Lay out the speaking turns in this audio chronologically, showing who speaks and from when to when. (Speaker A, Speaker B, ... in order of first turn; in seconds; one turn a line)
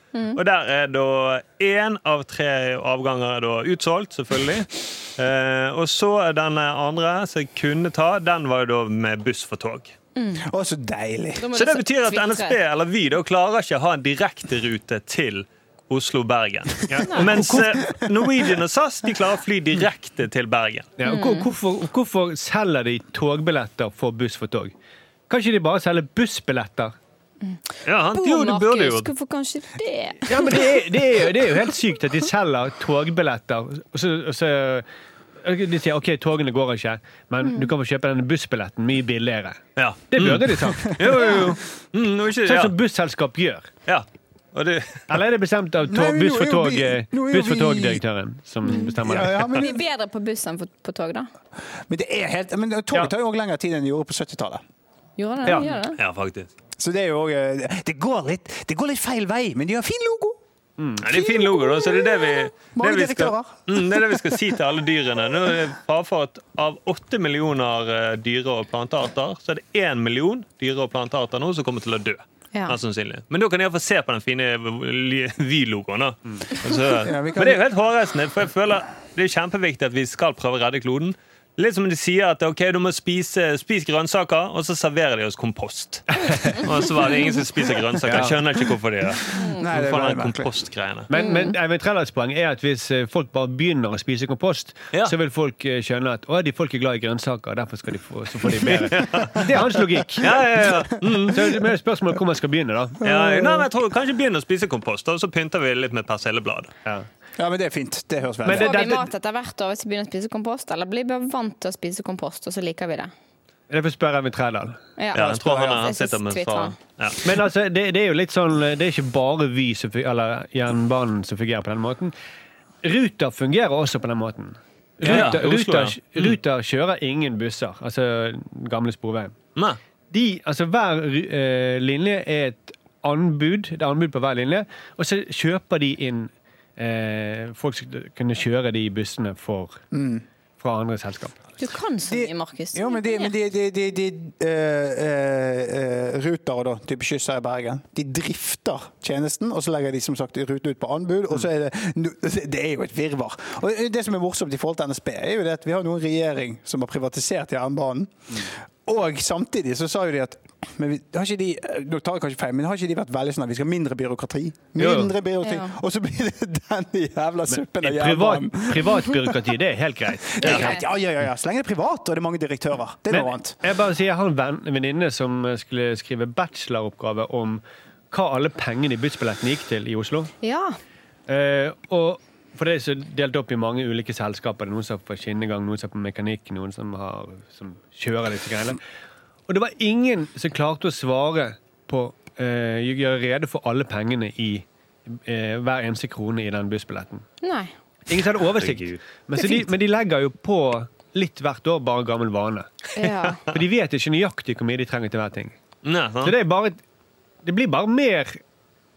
Speaker A: 0.1-0.4
Speaker B: 0.3-9.9
Speaker A: 10.2-10.5
Speaker C: 10.4-11.4
Speaker A: 11.4-12.6
Speaker B: 11.5-21.0
Speaker D: 16.9-17.7
Speaker D: 21.0-24.7
Speaker A: 21.1-21.5
Speaker D: 25.3-26.9
Speaker B: 27.9-29.1
Speaker A: 28.1-31.0
Speaker D: 30.3-34.9
Speaker D: 35.4-41.5
Speaker B: 39.8-42.8
Speaker D: 42.5-43.7
Speaker B: 43.9-45.1
Speaker D: 45.1-49.6
Speaker C: 45.8-48.0
Speaker A: 48.7-49.0
Speaker C: 48.8-49.8
Speaker A: 49.5-51.3
Speaker C: 51.9-54.6
Speaker A: 55.2-56.0
Speaker D: 55.5-55.7
Speaker B: 56.0-56.5
Speaker C: 56.8-60.4
Speaker D: 60.8-61.1
Speaker B: 61.0-91.1
Speaker C: 61.1-64.4
Speaker C: 77.0-77.6
Speaker D: 86.3-86.6
Speaker D: 88.1-88.4
Speaker A: 89.3-89.6
Speaker C: 89.4-90.5
Speaker D: 91.1-103.0
Speaker A: 91.1-91.5
Speaker B: 98.7-99.4
Speaker B: 100.2-101.5
Speaker C: 103.0-103.7
Speaker B: 103.0-106.7
Speaker C: 107.4-108.8
Speaker D: 108.4-109.1
Speaker A: 108.5-113.1
Speaker D: 113.7-114.8
Speaker A: 115.0-116.8
Speaker B: 115.1-117.2
Speaker D: 117.2-122.1
Speaker D: 122.8-129.4
Speaker B: 125.0-126.4
Speaker D: 130.1-139.8
Speaker C: 139.9-140.2
Speaker D: 140.6-141.4
Speaker A: 141.6-143.3
Speaker C: 142.1-169.5
Speaker D: 164.8-165.1
Speaker A: 165.4-165.8
Speaker D: 167.5-170.8
Speaker C: 170.3-173.6
Speaker A: 170.4-170.8
Speaker D: 173.1-180.3
Speaker A: 180.4-180.8
Speaker D: 181.3-188.8
Speaker D: 189.5-197.2
Speaker A: 197.4-197.7
Speaker D: 198.1-202.9
Speaker A: 203.0-203.5
Speaker D: 203.5-205.5
Speaker B: 205.8-206.3
Speaker D: 206.2-206.8
Speaker D: 207.4-208.4